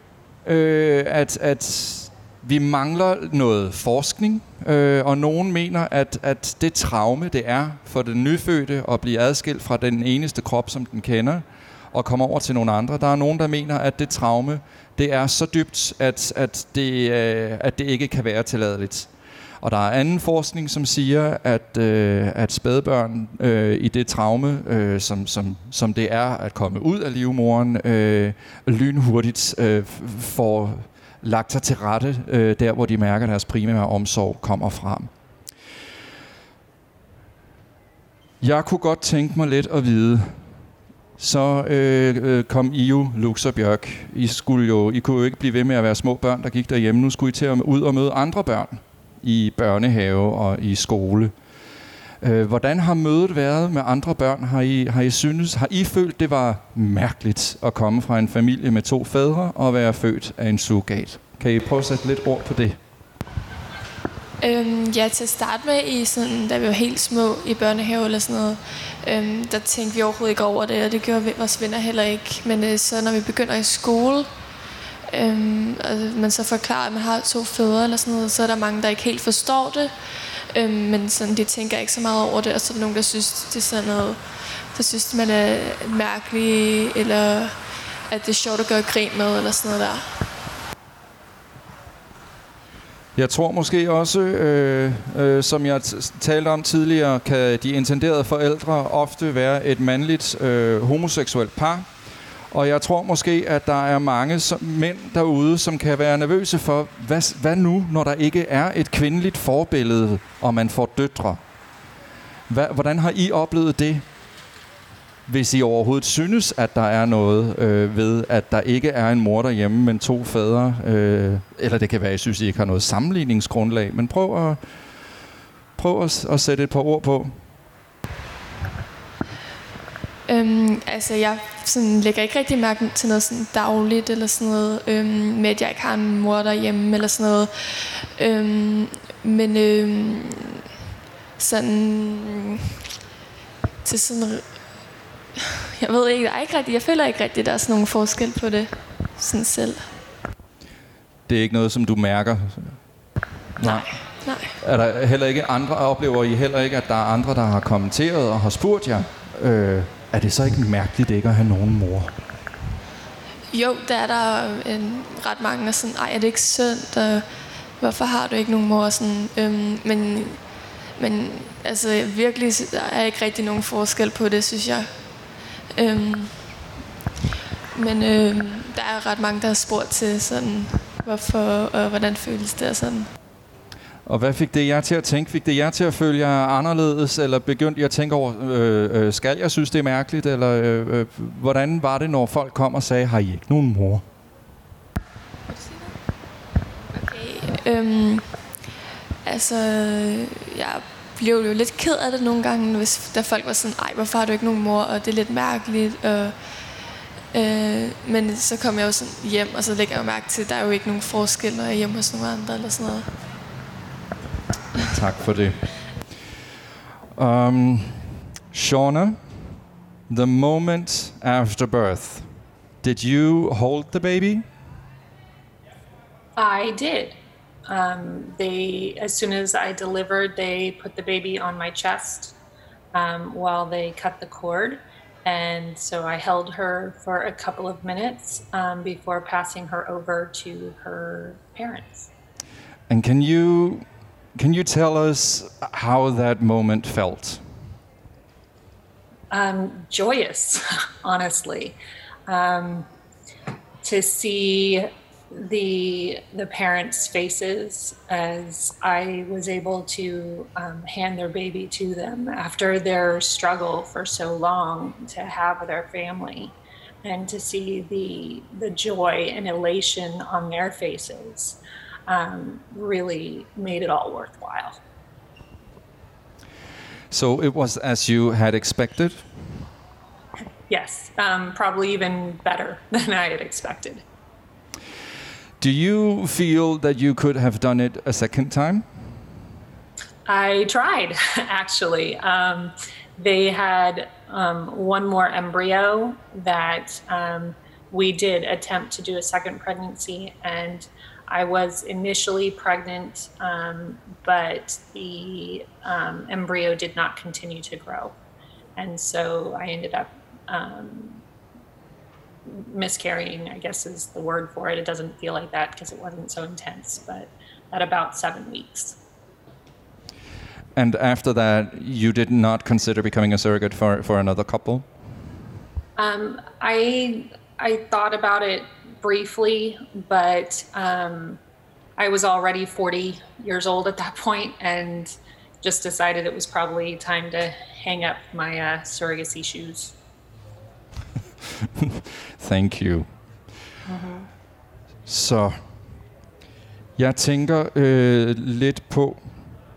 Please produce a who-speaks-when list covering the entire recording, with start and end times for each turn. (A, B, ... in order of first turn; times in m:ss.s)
0:00.4-0:19.1 A
0:19.6-0:35.1 A
0:38.4-0:40.4 A
0:41.2-0:51.3 A
0:52.2-1:02.8 A
1:04.4-1:14.3 B
1:15.1-1:30.3 B
1:33.1-1:41.9 A
1:42.5-1:51.4 A
1:52.5-1:54.0 A
1:55.3-2:04.6 A
2:05.8-2:07.4 A
2:10.3-2:20.5 B
2:21.4-2:22.6 B
2:23.8-2:24.9 B
2:25.8-2:30.0 B
2:31.3-2:32.8 A
2:33.6-2:42.1 A
2:33.6-2:34.5 B
2:43.5-2:56.6 B
2:57.7-3:03.1 B
3:04.0-3:14.0 A
3:15.5-3:15.9 B
3:16.9-3:18.5 B
3:19.2-3:26.7 B
3:27.3-3:33.1 B
3:34.8-3:35.8 A
3:37.2-3:39.4 A
3:40.1-3:44.4 A
3:46.4-3:47.2 C
3:47.7-3:52.4 C
3:52.9-4:02.1 C
4:02.9-4:07.4 A
4:09.3-4:12.9 C
4:13.8-4:34.8 C
4:37.1-4:39.3 A
4:40.7-4:44.0 C
4:45.6-4:48.9 A
4:50.3-5:08.2 C
5:08.8-5:11.2 C
5:12.4-5:19.0 C
5:20.8-5:24.9 A
5:26.0-5:31.4 C
5:32.0-5:39.9 C
5:41.6-5:43.1 A
5:43.8-5:44.3 C
5:45.0-5:45.7 A
5:47.0-5:49.5 A